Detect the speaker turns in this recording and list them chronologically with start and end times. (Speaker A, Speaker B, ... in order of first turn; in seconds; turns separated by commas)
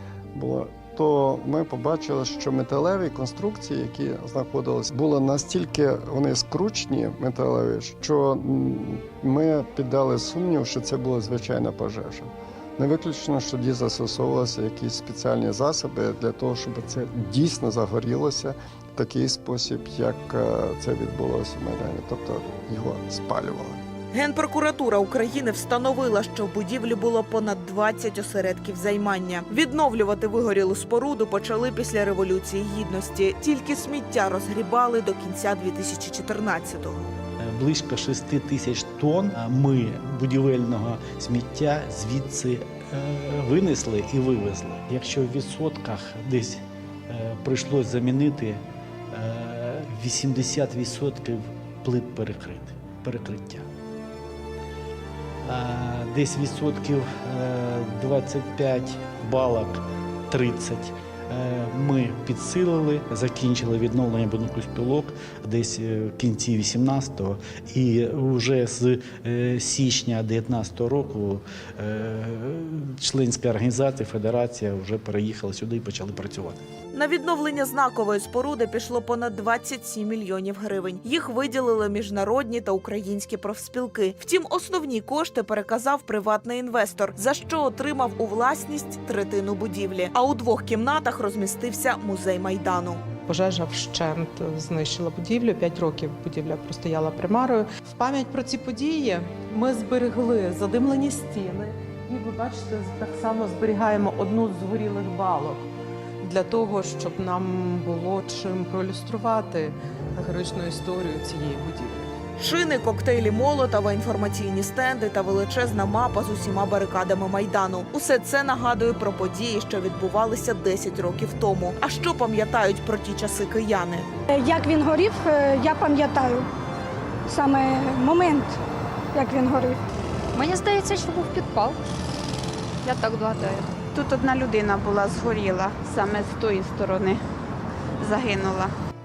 Speaker A: 0.3-23.8, Speaker B: 24.1-37.1, Speaker C: 37.4-53.7, Speaker C: 55.4-76.6, Speaker B: 76.9-93.0, Speaker D: 93.2-105.6, Speaker D: 106.2-112.1, Speaker B: 112.4-124.1, Speaker E: 124.3-126.5, Speaker E: 127.3-128.6, Speaker E: 129.1-129.8, Speaker F: 130.3-131.8, Speaker G: 132.8-137.2, Speaker F: 133.1-133.6, Speaker G: 138.0-138.7